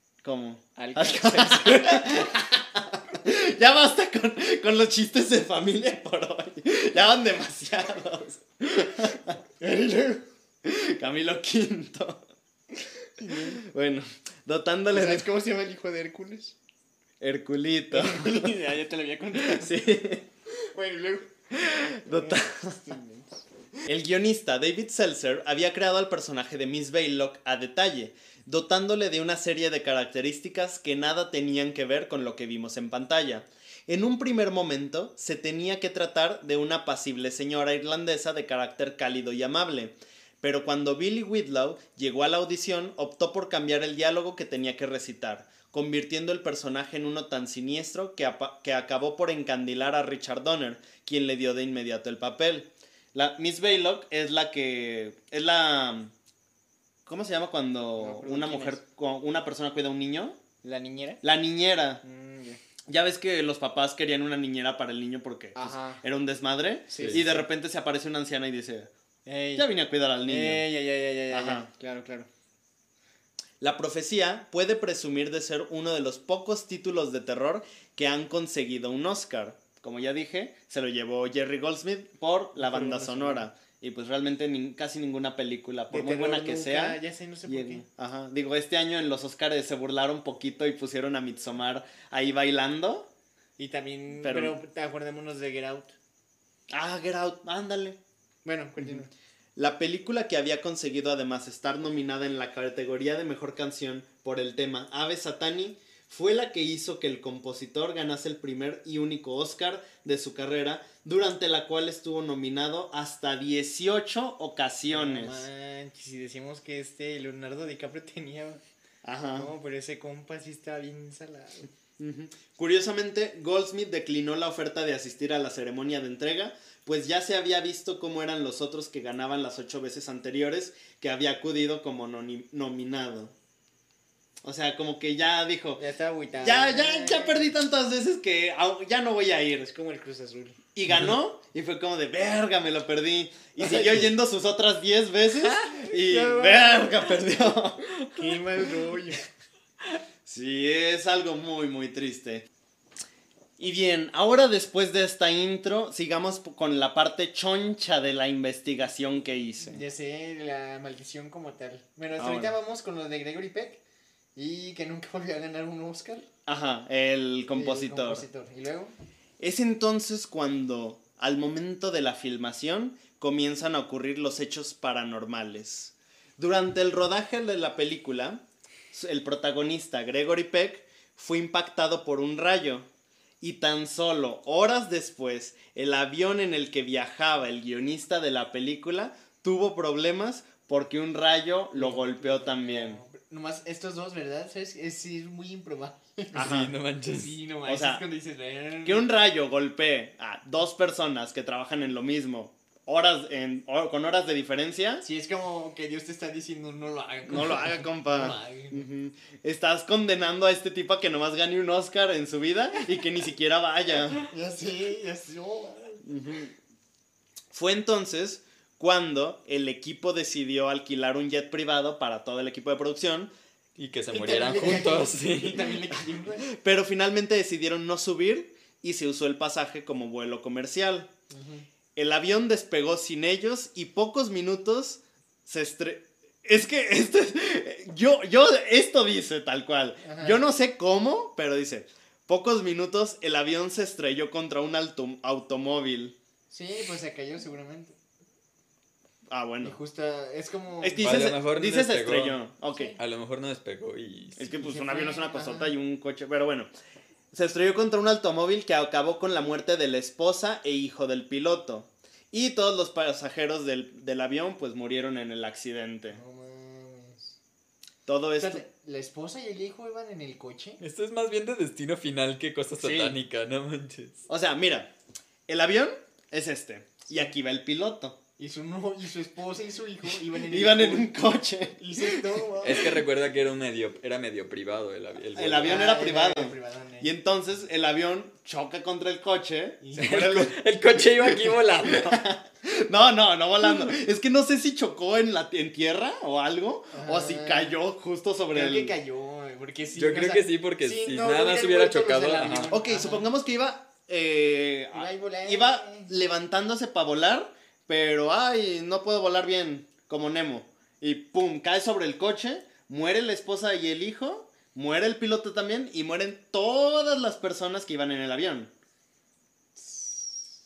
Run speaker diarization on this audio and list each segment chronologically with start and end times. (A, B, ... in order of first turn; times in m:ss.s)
0:00.2-0:09.4 A
0:00.8-0:02.3 B
0:09.6-0:10.2 B
0:10.6-0:12.2 A
0:13.2-0:13.6 B
0:13.6-0:15.3 A
0:14.9-0:16.6 B
0:17.2-0:18.6 A
0:17.9-0:19.8 B
0:19.4-0:20.2 A
0:20.6-0:21.3 B
0:21.5-0:22.8 A
0:22.0-0:23.4 B
0:23.9-0:56.1 A
0:57.0-1:00.4 A
0:58.0-0:58.8 B
1:00.6-1:01.2 B
1:01.2-1:02.0 A
1:02.0-1:02.6 B
1:02.9-1:08.9 A
1:05.6-1:06.0 B
1:06.9-1:07.4 B
1:09.3-1:09.7 B
1:09.6-1:10.6 A
1:10.2-1:12.3 B
1:11.3-1:11.7 A
1:13.6-1:33.1 A
1:22.6-1:23.5 B
1:25.9-1:27.8 B
1:33.6-1:35.9 B
1:34.2-1:34.6 A
1:36.7-1:38.0 A
1:38.4-1:39.1 B
1:39.6-1:55.4 A
1:54.9-1:58.6 B
1:59.0-1:59.5 A
1:59.4-2:01.7 B
2:02.0-2:13.3 A
2:14.4-2:15.8 A
2:15.8-2:17.5 B
2:16.4-2:19.7 A
2:19.6-2:20.6 B
2:20.7-2:27.9 A
2:23.6-2:24.1 B
2:25.4-2:27.3 B
2:28.0-2:29.2 B
2:30.3-2:32.4 A
2:33.6-2:39.8 A
2:39.6-2:43.8 B
2:42.2-2:42.5 A
2:44.4-2:46.3 B
2:46.4-2:48.2 A
2:47.6-2:48.9 B
2:49.4-3:02.9 A
3:03.4-3:13.0 A
3:11.7-3:16.6 B
3:16.3-3:16.7 A
3:16.3-3:17.4 C
3:17.1-3:19.1 B
3:17.6-3:18.0 A
3:18.8-3:25.0 A
3:25.0-3:28.9 B
3:27.3-3:34.2 A
3:34.2-3:36.0 B
3:36.0-3:36.5 A
3:37.5-3:43.3 A
3:43.8-3:45.8 C
3:44.1-3:46.5 B
3:46.5-3:51.1 A
3:51.3-3:51.7 B
3:52.0-4:06.1 A
4:00.0-4:00.4 B
4:06.5-4:08.0 B
4:09.3-4:09.8 A
4:09.6-4:11.2 B
4:10.8-4:12.9 A
4:11.0-4:12.4 C
4:12.7-4:13.0 B
4:13.0-4:14.4 C
4:14.4-4:16.7 A
4:14.4-4:15.7 B
4:17.3-4:26.2 A
4:26.1-4:27.3 B
4:28.0-4:28.6 A
4:28.4-4:30.8 B
4:30.8-4:34.2 C
4:32.8-4:33.2 A
4:34.3-4:34.9 A
4:35.5-4:38.2 A
4:38.4-4:41.1 B
4:40.5-4:42.3 A
4:41.8-4:43.0 B
4:42.6-4:45.9 C
4:45.4-4:50.6 A
4:45.6-4:47.1 B
4:49.8-4:50.4 B
4:50.0-4:52.2 C
4:51.2-4:58.9 A
4:56.9-4:57.8 B
4:58.5-5:03.3 B
4:59.9-5:02.7 C
5:02.7-5:18.7 A
5:04.9-5:06.1 B
5:19.8-5:20.4 B